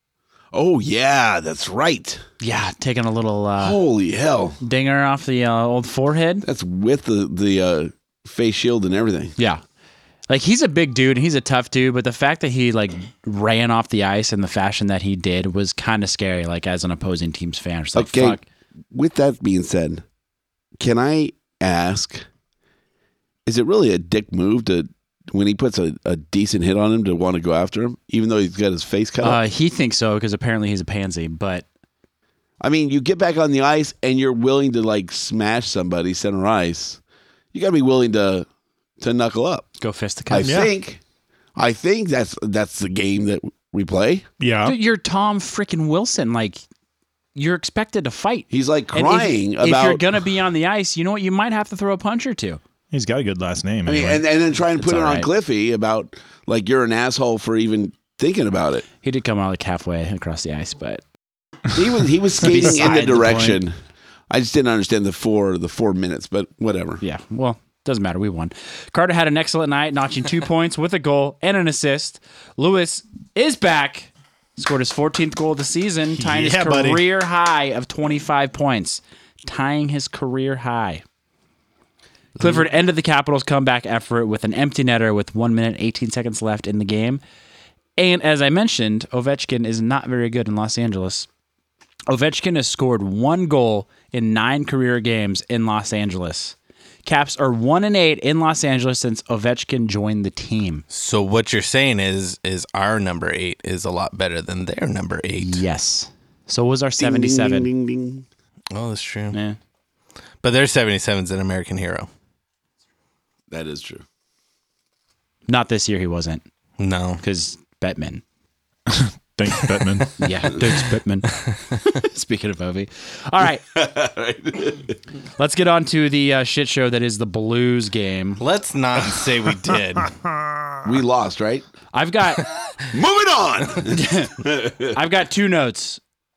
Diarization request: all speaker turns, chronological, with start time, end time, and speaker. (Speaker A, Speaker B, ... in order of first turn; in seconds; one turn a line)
Speaker A: 0.5-2.2
Speaker B: 2.4-3.8
Speaker A: 3.6-4.6
Speaker B: 4.6-6.5
Speaker A: 6.4-9.3
Speaker B: 10.3-18.4
Speaker A: 17.9-18.4
Speaker A: 18.9-20.0
Speaker A: 20.8-22.2
Speaker A: 23.5-29.4
Speaker B: 29.2-31.6
Speaker A: 32.6-37.0
Speaker A: 37.5-38.5
Speaker A: 39.0-39.7
Speaker B: 39.8-40.5
Speaker A: 40.3-41.0
Speaker C: 40.4-40.7
Speaker A: 41.6-44.3
Speaker C: 44.4-44.8
Speaker B: 44.6-46.6
Speaker B: 47.4-52.6
Speaker A: 48.5-50.0
Speaker C: 52.9-54.2
Speaker A: 53.9-58.9
Speaker B: 54.8-55.3
Speaker B: 59.0-61.0
Speaker A: 61.7-63.8
Speaker B: 62.4-63.6
Speaker A: 64.3-67.0
Speaker B: 67.0-81.0
Speaker C: 76.2-77.1
Speaker B: 82.4-87.2
Speaker B: 88.0-91.3
Speaker B: 92.1-100.8
Speaker D: 100.9-105.6
Speaker B: 105.4-107.7
Speaker A: 107.0-108.2
Speaker D: 108.7-109.4
Speaker B: 109.3-109.6
Speaker D: 110.4-112.1
Speaker A: 113.5-114.0
Speaker B: 115.5-116.4
Speaker D: 116.8-117.2
Speaker B: 117.2-118.2
Speaker C: 118.9-120.1
Speaker B: 120.2-123.7
Speaker A: 123.7-125.0
Speaker B: 125.4-128.4
Speaker D: 128.4-130.1
Speaker C: 130.2-130.8
Speaker A: 130.8-131.6
Speaker B: 131.9-132.5
Speaker A: 132.9-134.9
Speaker B: 133.9-134.3
Speaker B: 134.9-136.0